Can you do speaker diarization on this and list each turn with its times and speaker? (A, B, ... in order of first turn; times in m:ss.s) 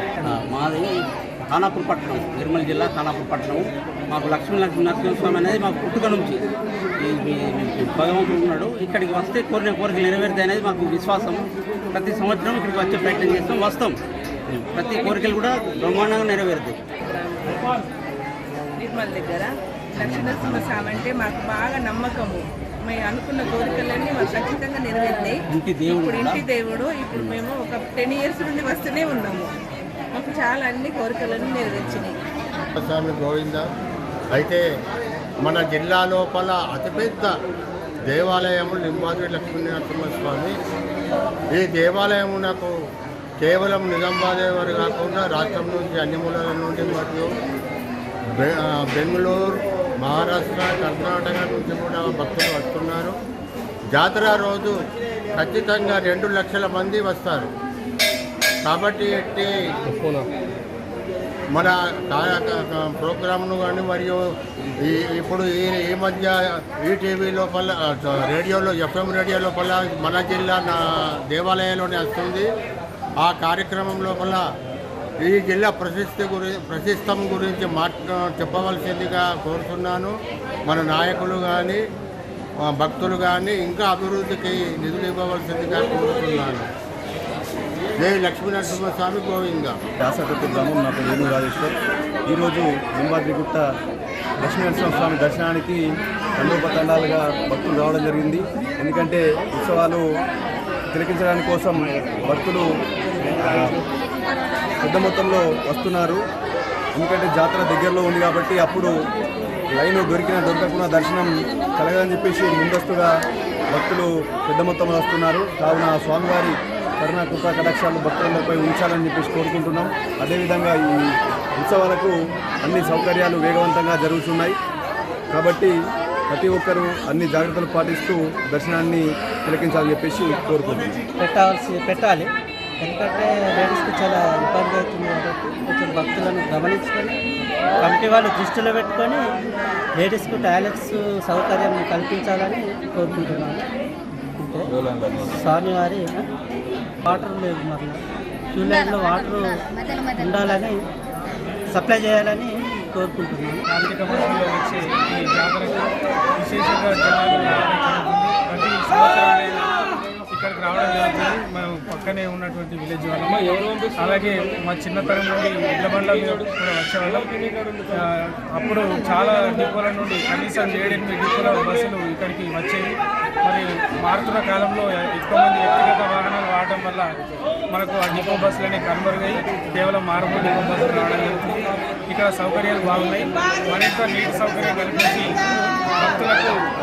0:00.2-0:06.4 A
0:07.0-0:14.0 A
0:14.5-0:16.8 A
0:18.8-0:25.4 B
0:20.0-0:20.7 A
0:25.5-0:26.4 A
0:26.0-0:29.5 B
0:30.1-0:32.2 B
0:32.8-0:33.7 C
0:34.4-0:34.7 C
0:35.4-0:37.4 C
0:38.1-0:40.6 C
0:41.5-0:42.8 C
0:43.4-0:47.3 C
0:48.4-0:53.2 C
0:53.9-0:54.8 C
0:55.4-0:57.5 C
0:58.6-0:59.5 C
1:01.6-1:04.3 C
1:04.8-1:12.5 C
1:13.2-1:14.5 C
1:15.2-1:20.2 C
1:20.7-1:21.8 C
1:22.7-1:26.7 C
1:28.0-1:29.8 C
1:30.0-1:33.7 D
1:34.4-1:40.1 D
1:40.9-1:42.7 D
1:43.3-1:43.7 D
1:44.8-1:46.2 D
1:47.0-1:49.0 D
1:49.8-1:53.1 D
1:53.7-2:04.6 D
2:05.3-2:05.8 D
2:06.3-2:11.0 D
2:11.2-2:17.2 E
2:17.8-2:19.3 E
2:20.0-2:23.7 E
2:24.3-2:26.3 E
2:27.0-2:28.0 E
2:28.5-2:30.8 E
2:31.7-2:33.7 E
2:33.7-2:57.1 F
2:57.7-3:05.4 F
3:06.0-3:06.6 F